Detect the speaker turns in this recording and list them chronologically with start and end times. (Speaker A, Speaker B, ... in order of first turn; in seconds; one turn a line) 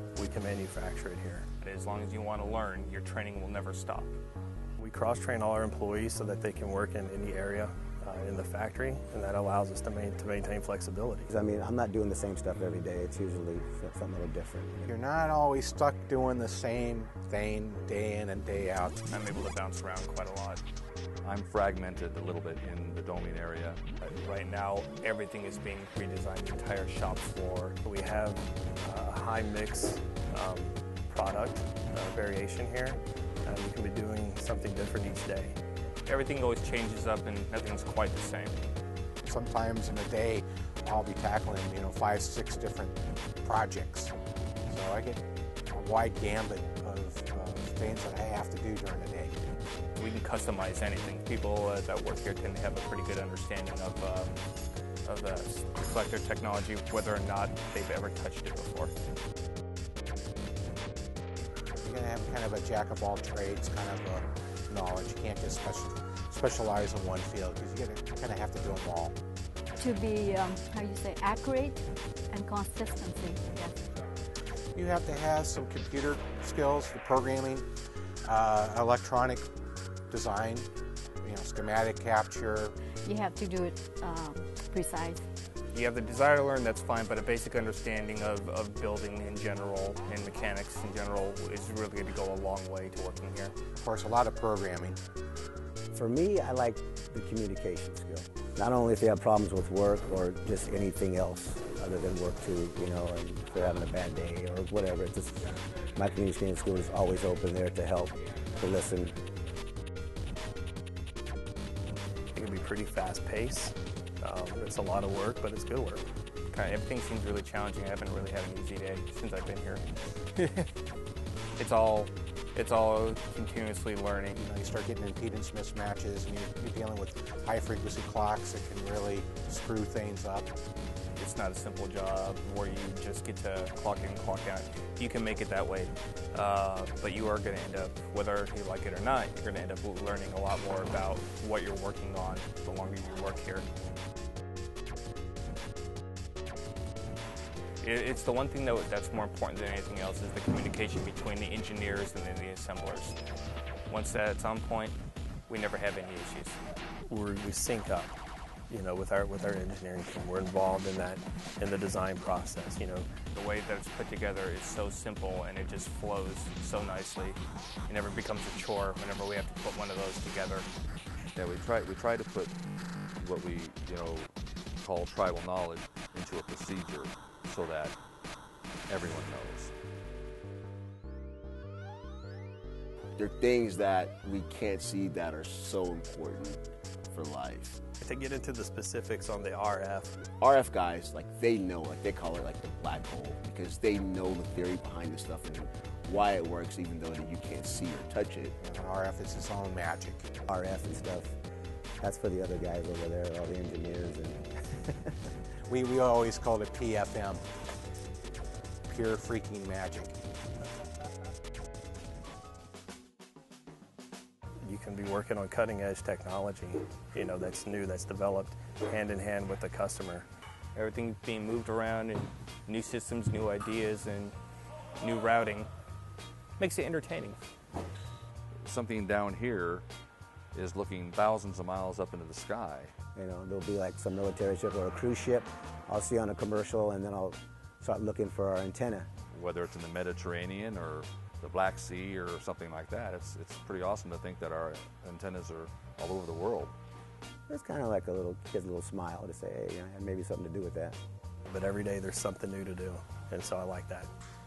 Speaker A: 0.2-1.5
Speaker B: 1.6-4.1
Speaker A: 4.8-11.3
Speaker C: 11.3-14.9
Speaker D: 14.9-19.0
Speaker B: 19.1-20.6
Speaker E: 21.2-23.8
Speaker B: 24.0-27.8
Speaker A: 27.8-35.6
Speaker B: 36.0-38.6
Speaker D: 39.2-44.1
Speaker D: 44.7-49.4
Speaker B: 50.0-54.4
Speaker B: 55.0-58.9
Speaker D: 61.8-69.2
Speaker F: 69.8-73.8
Speaker D: 74.7-77.7
Speaker D: 78.3-79.5
Speaker D: 80.1-80.7
Speaker D: 81.2-82.8
Speaker F: 83.0-85.2
Speaker B: 85.7-93.5
Speaker D: 93.8-95.0
Speaker C: 95.9-109.2
Speaker A: 112.3-116.1
Speaker B: 116.5-120.7
Speaker B: 121.6-124.4
Speaker D: 124.3-130.5
Speaker B: 131.2-143.7
Speaker B: 147.8-153.2
Speaker B: 153.9-155.0
Speaker B: 155.5-156.6
Speaker A: 157.1-158.2
Speaker A: 158.7-163.1
Speaker B: 163.3-170.7
Speaker E: 171.3-172.6
Speaker E: 173.2-178.0
Speaker E: 178.9-179.7
Speaker G: 183.2-187.8
Speaker A: 188.0-190.1
Speaker G: 190.4-198.5
Speaker D: 198.6-200.3
Speaker C: 200.5-201.3
Speaker C: 202.0-205.2
Speaker D: 205.7-207.4
Speaker D: 208.9-210.2
Speaker A: 214.6-220.3
Speaker B: 220.8-224.4
Speaker B: 225.0-225.7
Speaker B: 226.6-227.4
Speaker E: 228.7-229.9
Speaker E: 230.5-232.9
Speaker C: 233.2-239.1
Speaker E: 239.3-246.7
Speaker C: 247.5-251.0
Speaker A: 251.5-254.1